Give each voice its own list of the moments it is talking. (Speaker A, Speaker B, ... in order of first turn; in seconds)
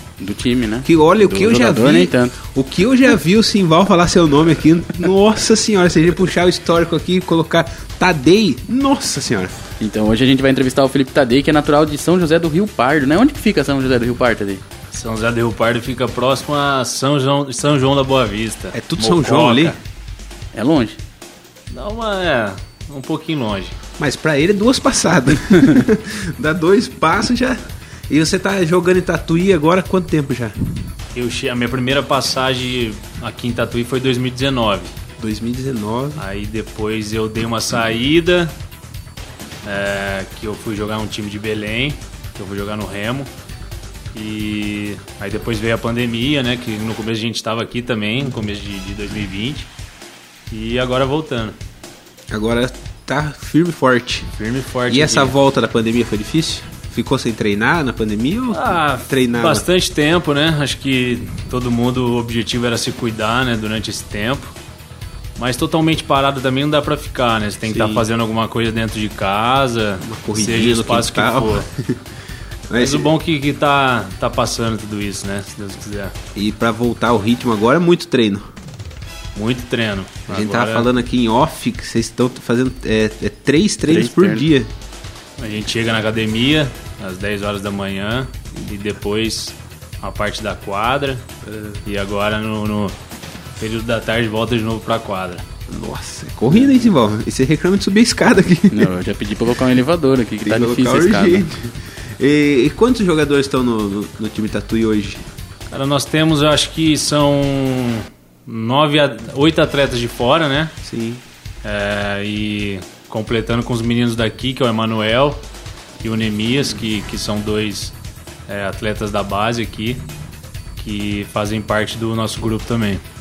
Speaker A: 0.2-2.4, 9.8-14.6, 20.5-21.0, 83.9-84.5, 96.5-96.8, 98.7-101.5
Speaker B: 0.8-9.6, 18.7-19.8, 24.0-30.5, 35.2-36.2, 52.3-54.3, 54.9-59.6, 67.7-68.0, 70.0-72.0, 72.7-73.1, 76.3-78.5, 80.3-84.7, 91.4-91.8, 95.7-98.9, 100.4-105.3, 110.8-111.2
Speaker C: 14.9-19.8, 21.7-23.8, 31.1-34.9, 36.2-38.5, 39.6-43.3, 44.1-49.7, 50.5-51.6, 54.3-55.4, 58.5-64.5, 65.3-71.7, 72.8-76.1, 79.3-80.9, 85.4-91.2, 91.8-92.9, 93.6-95.4, 105.7-110.7, 111.6-115.4, 116.0-117.9, 118.5-120.0, 120.8-123.0